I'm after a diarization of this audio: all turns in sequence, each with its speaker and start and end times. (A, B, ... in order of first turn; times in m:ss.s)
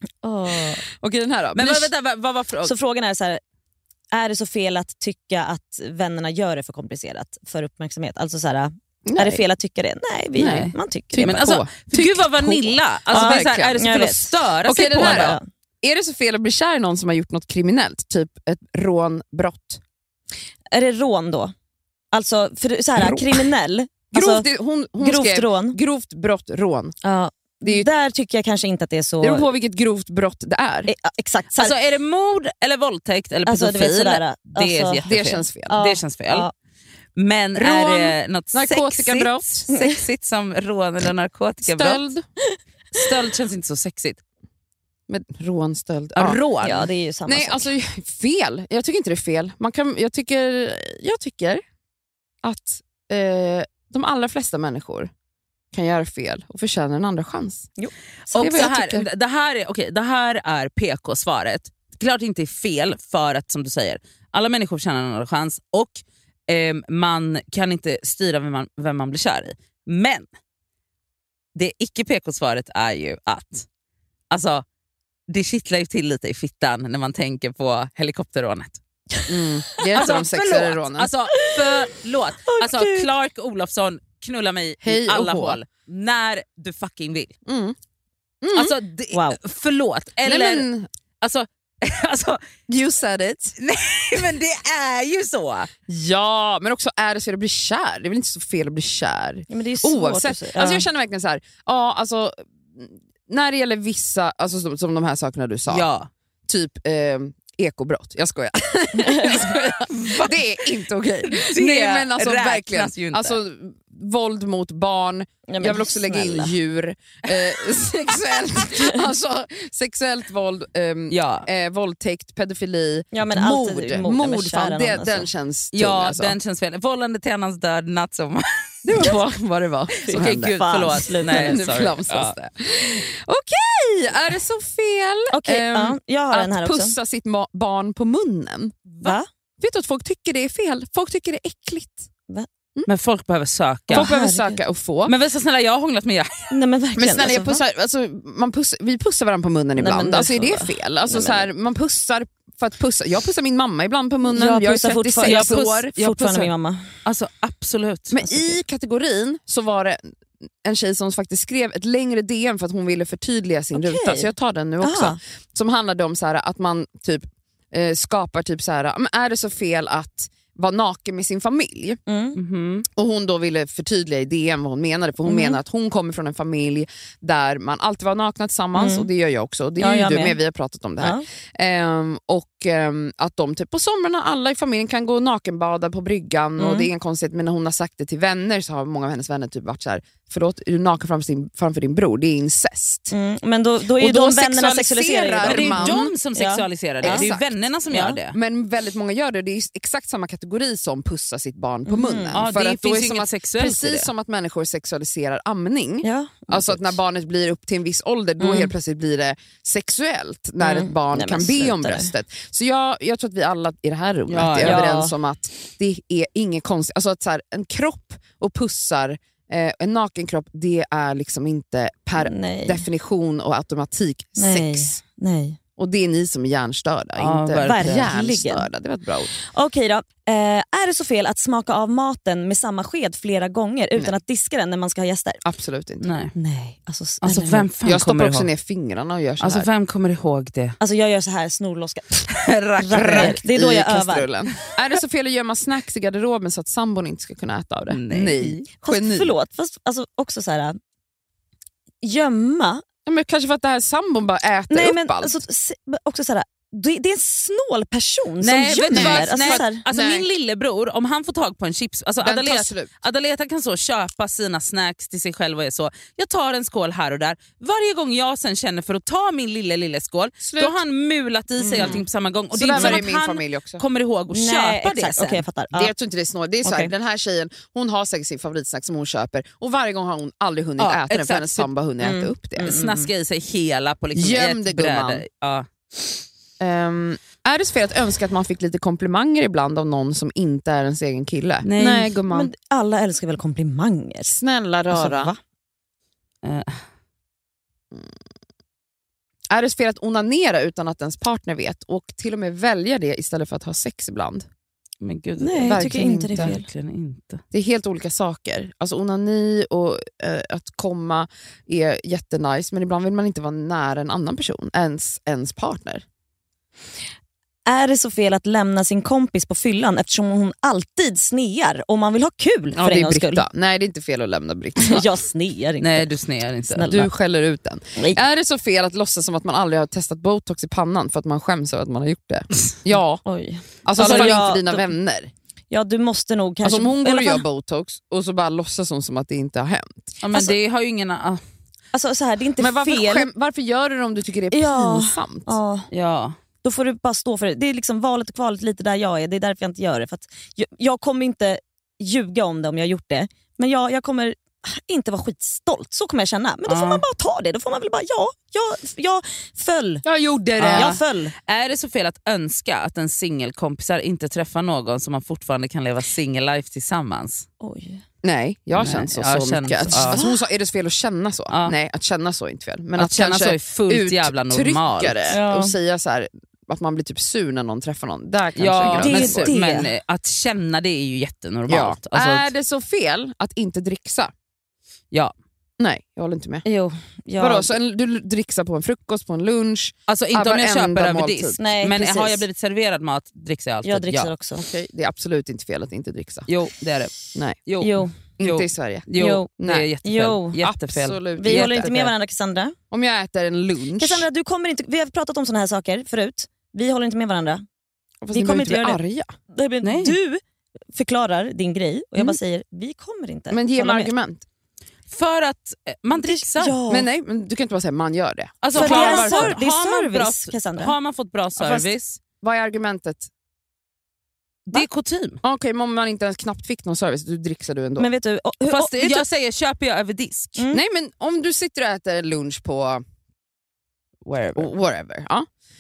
0:00.2-0:00.8 A
0:00.8-0:01.9 B
0:01.6-0:02.7 C
0:02.6-0:03.4 A
0:04.1-0:11.4 A
0:09.0-0:09.4 B
0:10.4-0:13.8 B
0:10.4-0:15.4 C
0:13.1-0:15.4 A
0:14.6-0:19.8 B
0:20.7-0:21.5 A
0:22.1-0:24.5 A
0:23.0-0:23.5 B
0:24.1-0:27.0 B
0:25.0-0:25.8 A
0:27.0-0:29.5 A
0:29.2-0:30.9 B
0:30.9-0:31.8 A
0:31.6-0:36.5 C
0:33.5-0:35.0 A
0:35.1-0:35.8 B
0:35.7-0:36.5 A
0:37.2-0:42.0 C
0:37.6-0:39.6 B
0:39.7-0:40.0 A
0:41.6-0:42.2 B
0:42.9-0:44.2 C
0:45.1-0:46.4 B
0:46.2-0:46.9 C
0:46.6-0:47.7 A
0:47.3-0:51.6 B
0:52.4-0:55.1 B
0:55.7-0:57.7 B
0:57.8-0:58.7 A
0:58.3-1:10.3 C
0:58.4-0:59.1 B
1:11.6-1:13.7 C
1:14.3-1:14.6 C
1:15.3-1:18.8 C
1:19.2-1:19.9 A
1:19.3-1:21.1 B
1:20.0-1:27.4 C
1:21.3-1:21.8 A
1:22.4-1:23.1 A
1:24.8-1:25.6 B
1:27.5-1:27.8 B
1:28.4-1:28.7 B
1:28.5-1:30.7 C
1:29.1-1:29.4 A
1:30.2-1:30.9 B
1:31.2-1:32.5 C
1:32.7-1:33.6 B
1:33.6-1:35.7 C
1:35.9-1:45.9 B
1:39.5-1:40.9 A
1:45.7-1:46.1 C
1:46.5-2:06.4 B
1:49.0-1:49.4 A
1:49.3-1:50.5 C
1:51.3-1:53.4 C
1:55.5-1:56.5 A
2:01.1-2:01.5 C
2:03.1-2:05.3 A
2:05.7-2:09.1 C
2:08.8-2:10.6 B
2:10.0-2:11.6 A
2:10.1-2:12.4 C
2:11.2-2:18.8 B
2:15.3-2:17.0 A
2:19.0-2:19.3 A
2:19.6-2:22.1 B
2:22.9-2:24.1 C
2:23.9-2:25.1 B
2:23.9-2:24.6 A
2:25.1-2:26.5 C
2:26.5-2:27.6 A
2:27.0-2:35.9 B
2:29.8-2:31.5 A
2:34.3-2:36.9 A
2:35.2-2:36.5 C
2:37.0-2:38.2 C
2:38.1-2:40.1 B
2:40.6-2:52.0 B
2:43.7-2:45.2 A
2:52.1-2:52.4 A
2:52.4-2:52.9 C
2:52.9-3:13.1 B
2:55.3-2:55.6 A
2:58.8-2:59.1 A
2:59.8-3:00.4 A
3:01.0-3:01.2 A
3:06.6-3:06.9 A
3:13.1-3:17.3 A
3:14.0-3:16.1 B
3:15.4-3:18.4 C
3:17.0-3:17.6 B
3:17.9-3:18.2 A
3:18.3-3:45.0 B
3:21.9-3:22.4 A
3:22.3-3:24.1 C
3:26.0-3:26.8 A
3:28.4-3:28.7 A
3:30.6-3:32.1 A
3:34.3-3:34.9 C
3:34.6-3:35.1 A
3:42.2-3:42.9 A
3:44.4-3:45.6 A
3:45.8-3:49.3 B
3:47.2-3:48.1 C
3:47.6-3:48.7 A
3:49.3-3:55.4 A
3:55.4-3:56.1 B
3:56.0-3:56.3 C
3:56.4-3:57.7 A
3:57.2-3:58.5 C
3:57.8-3:59.7 B
3:59.4-4:00.8 C
4:00.8-4:04.3 A
4:02.3-4:03.4 C
4:02.9-4:09.3 B
4:07.9-4:08.6 C
4:08.8-4:10.8 A
4:12.0-4:12.8 A
4:13.1-4:15.4 B
4:14.7-4:19.8 A
4:18.4-4:35.4 C
4:18.9-4:20.3 B
4:22.2-4:22.9 B
4:30.4-4:30.8 B
4:31.6-4:33.8 B
4:32.8-4:33.0 A
4:34.3-4:35.9 A
4:35.7-4:42.8 B
4:36.6-4:36.9 A
4:40.8-4:41.7 C
4:42.0-4:43.1 A
4:42.6-4:45.7 C
4:44.2-4:45.2 B
4:46.6-4:52.5 B
4:51.6-4:52.2 C
4:52.3-4:54.4 A
4:54.3-4:55.3 B
4:54.9-4:55.4 A
4:56.4-4:56.8 C
4:59.5-5:04.5 B
5:05.0-5:07.4 C
5:05.4-5:06.6 A
5:05.6-5:06.6 B
5:07.5-5:16.0 B
5:17.7-5:23.4 A
5:22.8-5:25.1 B
5:24.8-5:26.2 A
5:25.8-5:27.0 C
5:26.7-5:27.1 A
5:26.9-5:33.2 B
5:33.2-5:34.9 A
5:33.8-5:35.3 B
5:34.0-5:34.4 C
5:35.7-5:37.4 A
5:36.6-5:40.1 B
5:40.2-5:41.4 C
5:41.9-5:43.3 A
5:42.6-5:45.6 B
5:44.5-5:45.9 A
5:45.9-5:46.4 C
5:46.6-6:00.0 A
5:56.7-5:57.0 C
6:00.0-6:01.0 B
6:00.6-6:07.5 C
6:00.7-6:01.3 A
6:07.6-6:08.0 A
6:08.2-6:19.5 B
6:08.8-6:10.2 C
6:09.9-6:10.4 A
6:13.0-6:15.4 C
6:15.3-6:15.7 A
6:18.6-6:22.5 C
6:19.0-6:19.9 A
6:21.7-6:24.3 B
6:25.8-6:26.6 B
6:26.6-6:27.8 A
6:27.4-6:31.6 B
6:30.1-6:34.3 C
6:31.6-6:32.4 A
6:33.8-6:34.6 A
6:34.6-6:36.5 B
6:36.5-6:37.1 C
6:37.6-6:42.1 C
6:37.8-6:38.1 A
6:38.4-6:39.9 B
6:39.2-6:39.5 A
6:40.0-6:40.6 A
6:40.6-6:42.1 B
6:41.4-6:42.8 A
6:42.9-6:44.3 B
6:44.0-6:47.6 A
6:48.2-6:49.3 B
6:48.3-6:49.0 A
6:49.5-6:50.4 A
6:49.8-6:50.2 C
6:50.9-6:54.1 A
6:53.5-6:54.4 B
6:55.1-6:56.8 C
6:56.2-6:57.1 A
6:56.9-6:59.6 B
6:58.6-7:02.2 C
6:58.7-7:00.9 A
7:01.6-7:01.9 B
7:02.4-7:03.3 B
7:04.7-7:05.4 C
7:05.4-7:08.1 B
7:08.0-7:09.2 A
7:08.6-7:10.6 C
7:10.6-7:10.8 A
7:10.7-7:13.0 B
7:14.2-7:14.7 C
7:14.6-7:15.5 B